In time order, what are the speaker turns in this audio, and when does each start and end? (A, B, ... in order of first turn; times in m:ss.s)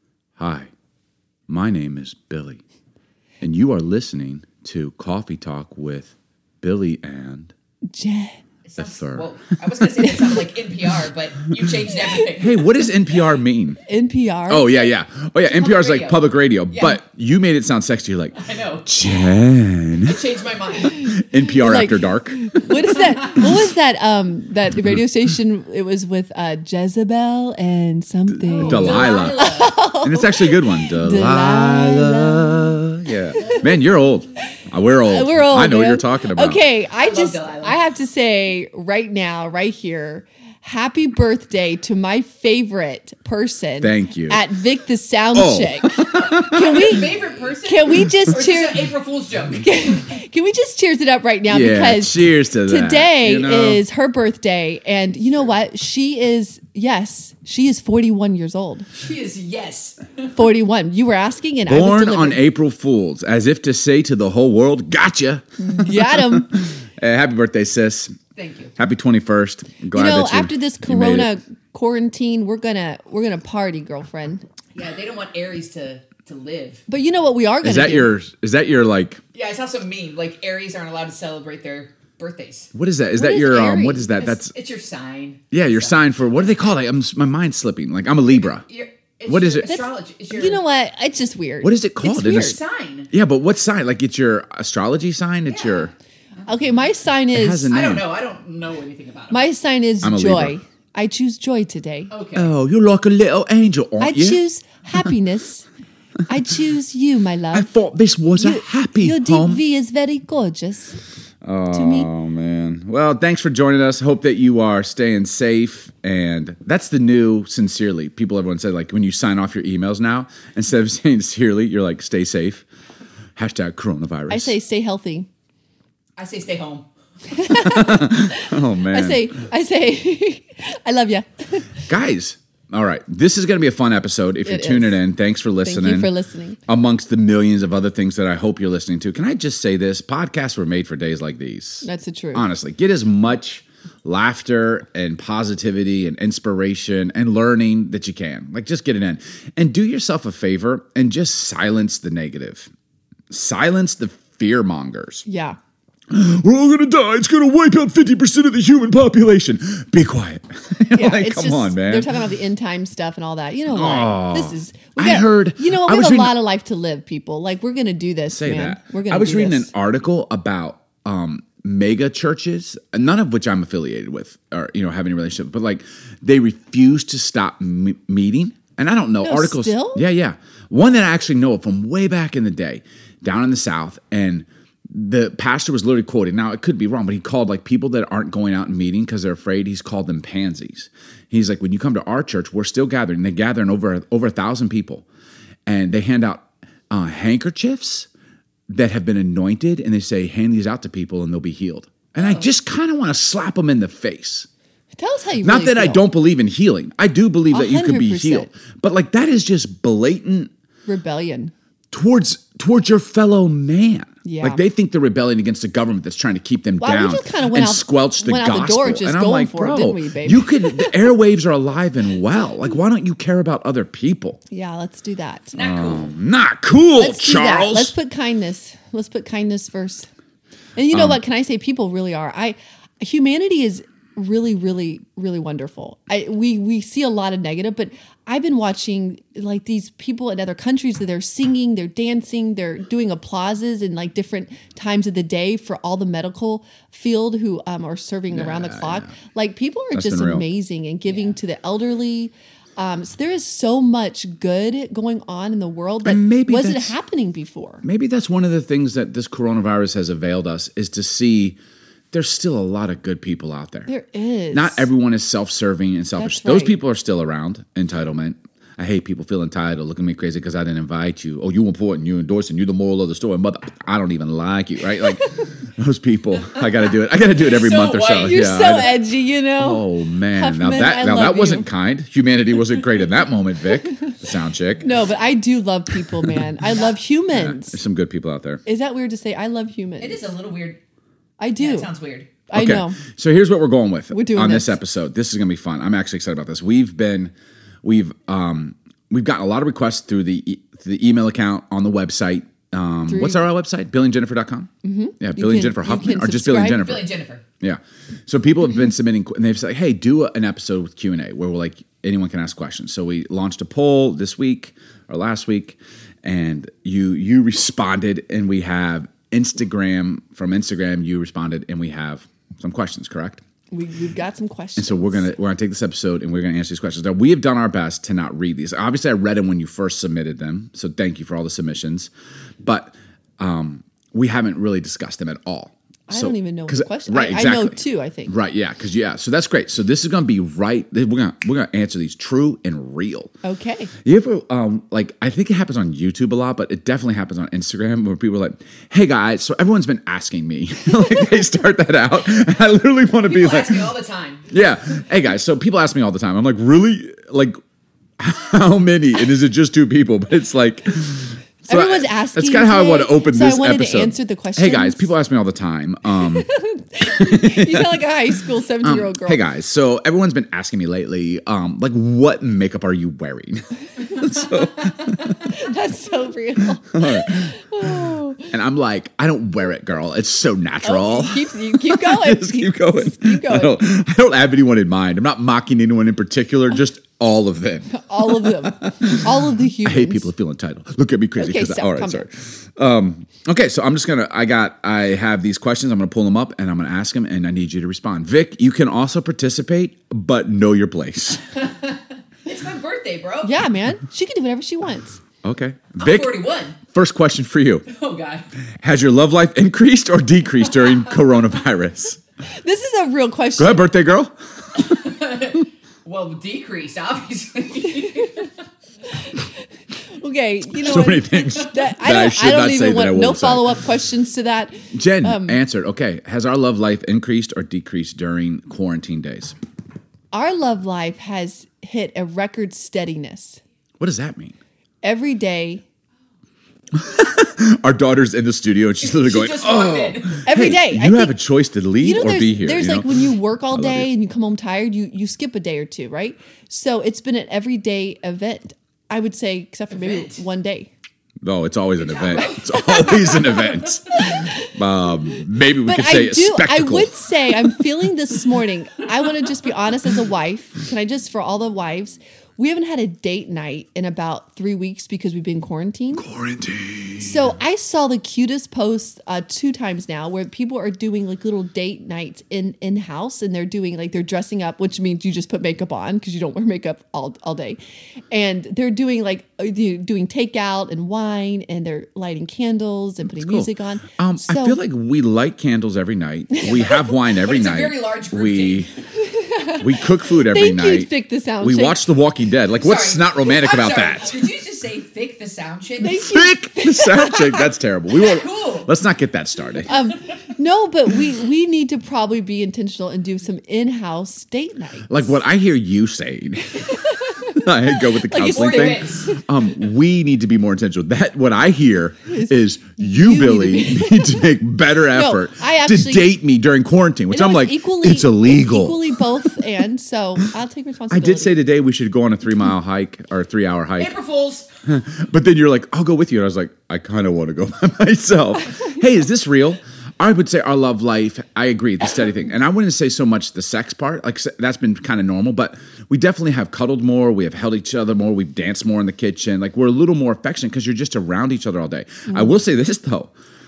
0:00.4-0:00.7 A
0:01.5-0:02.6 A
0:03.4-0:07.5 A
0:07.9-0:08.4 B
0:08.6-0:12.6 C
0:08.8-0:09.3 A
0:12.3-0:13.8 A
0:13.9-0:14.8 B
0:14.5-0:20.3 A
0:15.4-0:17.0 C
0:18.3-0:18.9 C
0:20.0-0:21.1 C
0:20.9-0:22.7 A
0:21.0-0:33.6 B
0:28.3-0:29.5 A
0:28.4-0:29.8 C
0:30.0-0:36.6 A
0:35.1-0:48.9 B
0:37.0-0:37.8 C
0:43.8-0:44.5 A
0:45.3-0:46.8 A
0:46.1-0:50.2 C
0:49.5-0:58.9 B
0:51.5-0:53.8 A
0:58.9-1:00.3 C
1:00.4-1:02.4 B
1:01.7-1:08.2 A
1:05.6-1:06.5 B
1:08.4-1:08.7 C
1:08.8-1:11.4 A
1:09.9-1:14.4 B
1:14.8-1:16.8 C
1:16.9-1:18.1 B
1:17.6-1:19.2 A
1:19.3-1:22.7 C
1:22.7-1:24.5 A
1:23.2-1:24.1 B
1:24.2-1:26.5 C
1:25.5-1:28.7 A
1:28.5-1:30.6 C
1:29.3-1:29.7 A
1:29.7-1:32.6 B
1:31.6-1:32.6 A
1:32.3-1:33.1 C
1:33.1-1:35.9 A
1:35.5-1:35.9 C
1:36.5-1:37.7 B
1:37.3-1:38.2 A
1:37.7-1:39.4 C
1:39.3-1:42.1 B
1:40.0-1:40.6 A
1:42.1-1:42.5 C
1:42.4-1:44.4 A
1:44.0-1:45.7 B
1:46.3-1:47.7 B
1:47.5-1:49.6 A
1:48.4-1:51.0 B
1:51.4-2:02.7 A
1:51.7-1:52.1 B
2:03.4-2:04.6 A
2:04.3-2:05.3 B
2:06.2-2:06.9 C
2:07.3-2:11.7 B
2:07.5-2:09.4 A
2:11.9-2:16.1 A
2:14.4-2:15.0 B
2:15.6-2:16.6 B
2:16.7-2:32.7 A
2:21.8-2:22.4 B
2:33.3-2:35.2 A
2:35.3-2:35.6 B
2:36.1-2:42.1 A
2:40.9-2:49.7 B
2:43.7-2:46.4 A
2:48.3-3:15.0 A
2:59.2-3:00.0 B
3:15.7-3:18.1 A
3:18.7-3:24.5 A
3:25.0-3:26.1 B
3:25.4-3:30.5 A
3:27.5-3:28.5 B
3:30.9-3:31.5 B
3:31.9-3:44.4 A
3:34.2-3:34.6 B
3:36.8-3:41.1 B
3:44.5-3:45.6 B
3:45.5-3:46.1 C
3:45.6-3:47.9 A
3:47.0-3:50.1 B
3:50.8-4:17.8 B
3:50.9-3:51.2 A
4:08.3-4:09.1 A
4:09.9-4:10.5 A
4:11.1-4:11.4 C
4:16.0-4:17.0 A
4:17.8-4:21.6 A
4:22.1-4:23.9 A
4:23.9-4:24.9 B
4:24.5-4:39.0 A
4:26.2-4:26.8 B
4:35.0-4:35.5 B
4:37.3-4:38.8 C
4:38.2-4:41.7 B
4:39.6-4:44.9 A
4:43.7-4:44.2 B
4:44.8-4:47.8 B
4:47.3-4:48.6 A
4:48.7-4:50.3 B
4:50.0-4:50.8 C
4:51.4-4:51.9 B
4:51.6-4:52.4 C
4:52.5-4:53.0 B
4:52.5-5:23.4 A
4:54.1-4:54.8 B
5:03.1-5:03.4 B
5:04.8-5:06.9 B
5:06.7-5:07.4 C
5:23.7-5:25.3 B
5:24.8-5:32.1 A
5:32.6-5:43.3 A
5:36.1-5:38.4 B
5:43.4-5:43.9 B
5:44.0-5:53.9 A
5:53.2-5:54.5 C
5:54.5-5:57.6 A
5:58.2-6:06.5 A
6:01.7-6:05.1 B
6:06.2-6:09.4 B
6:07.0-6:08.1 A
6:08.8-6:15.5 A
6:15.5-6:18.5 B
6:16.9-6:41.5 A
6:20.8-6:23.8 B
6:27.9-6:30.3 B
6:31.4-6:32.3 B
6:41.7-6:43.6 C
6:43.4-6:45.2 B
6:45.4-6:47.9 A
6:46.0-6:46.8 C
6:47.9-6:48.5 C
6:48.8-6:52.2 A
6:52.6-6:53.9 B
6:53.6-6:54.8 A
6:54.8-6:58.5 C
7:00.1-7:05.6 B
7:00.8-7:03.8 A
7:04.9-7:09.6 A
7:10.3-7:13.6 B
7:14.0-7:14.6 A
7:15.0-7:15.8 B
7:16.9-7:24.1 A
7:19.0-7:20.4 C
7:20.4-7:21.4 B
7:22.0-7:30.9 B
7:29.9-7:30.4 C
7:31.4-7:37.7 A
7:32.1-7:33.3 C
7:32.4-7:33.6 B
7:34.2-7:34.7 B
7:35.8-7:46.3 B
7:46.2-7:47.5 A
7:47.2-7:57.8 B
7:58.3-8:04.8 B
8:03.3-8:08.9 A
8:06.7-8:08.9 C
8:09.2-8:12.0 B
8:09.8-8:14.5 A
8:12.8-8:16.2 C
8:16.0-8:17.7 B
8:16.0-8:19.9 A
8:18.2-8:18.9 C
8:19.9-8:25.3 B
8:25.1-8:39.5 A
8:27.1-8:29.5 B
8:28.4-8:29.4 C
8:32.3-8:34.5 B
8:35.1-8:36.3 B
8:37.3-8:41.5 B
8:41.1-8:44.2 A
8:44.0-8:44.7 C
8:44.9-9:03.3 A